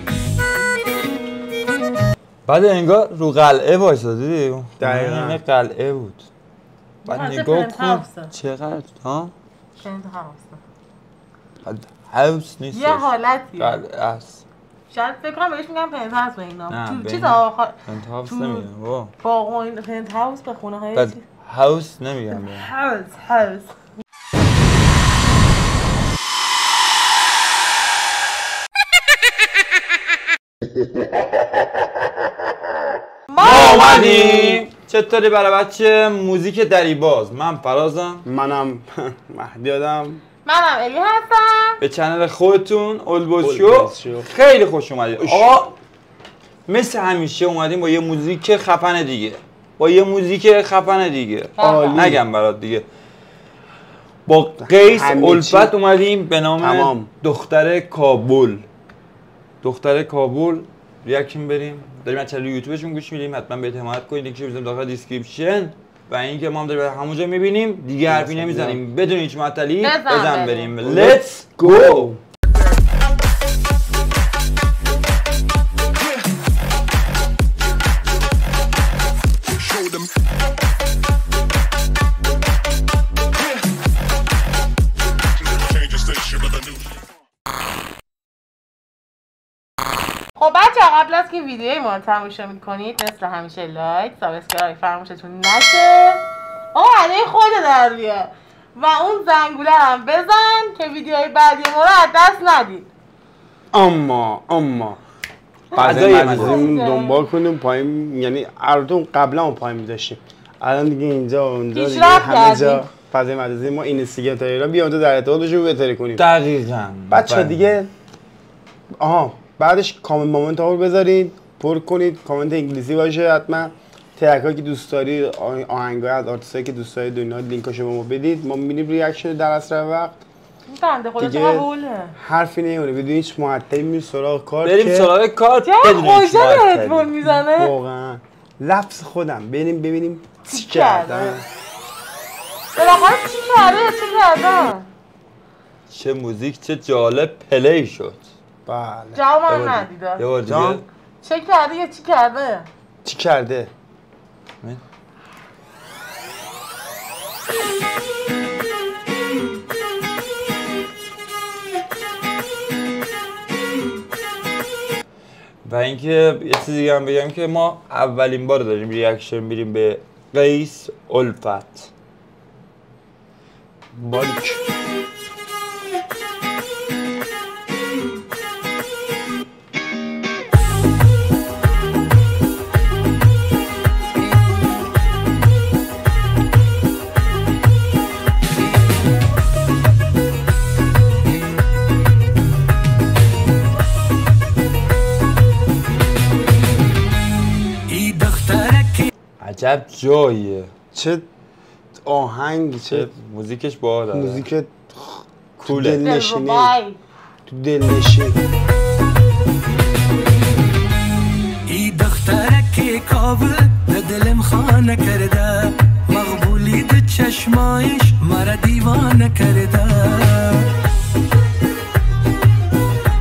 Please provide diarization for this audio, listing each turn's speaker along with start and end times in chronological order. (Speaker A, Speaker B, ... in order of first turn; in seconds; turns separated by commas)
Speaker A: 2.5-6.3, Speaker B: 4.8-5.4, Speaker A: 7.0-9.3, Speaker C: 7.1-8.3, Speaker C: 9.8-10.6, Speaker A: 11.7-14.4, Speaker C: 12.7-13.8, Speaker C: 14.9-17.8, Speaker A: 16.7-19.1, Speaker C: 18.3-18.7, Speaker C: 19.2-21.2, Speaker A: 20.9-22.7, Speaker C: 22.6-23.7, Speaker C: 33.3-34.1, Speaker A: 33.4-38.3, Speaker B: 33.5-34.6, Speaker B: 38.2-40.2, Speaker C: 40.5-41.8, Speaker A: 41.8-45.7, Speaker B: 43.4-44.3, Speaker B: 45.2-45.6, Speaker A: 46.7-52.9, Speaker B: 51.6-52.2, Speaker C: 51.6-52.0, Speaker A: 54.3-58.7, Speaker B: 54.6-55.7, Speaker B: 56.6-57.1, Speaker A: 59.6-72.1, Speaker B: 68.1-68.8, Speaker C: 69.8-70.7, Speaker B: 70.8-72.2, Speaker C: 90.4-102.9, Speaker B: 103.7-105.0, Speaker B: 105.7-116.2, Speaker A: 105.8-106.8, Speaker C: 105.8-107.2, Speaker C: 111.8-112.8, Speaker A: 116.2-117.8, Speaker B: 117.1-117.9, Speaker B: 119.0-130.2, Speaker C: 130.7-132.2, Speaker B: 131.2-135.1, Speaker A: 134.6-137.1, Speaker C: 135.6-137.7, Speaker B: 137.2-141.5, Speaker C: 140.5-141.4, Speaker C: 142.8-144.9, Speaker A: 145.9-148.3, Speaker B: 148.7-149.2, Speaker C: 149.2-150.3, Speaker A: 149.5-150.8, Speaker B: 150.4-150.8, Speaker C: 151.2-152.7, Speaker B: 153.0-153.7, Speaker A: 165.6-171.9, Speaker B: 173.9-174.6, Speaker D: 197.9-199.1, Speaker A: 199.4-200.7, Speaker B: 200.9-201.3, Speaker B: 202.0-203.1, Speaker A: 202.9-204.5, Speaker B: 204.1-206.7, Speaker A: 205.6-206.2, Speaker C: 206.0-207.0, Speaker B: 207.5-208.4, Speaker D: 211.7-220.7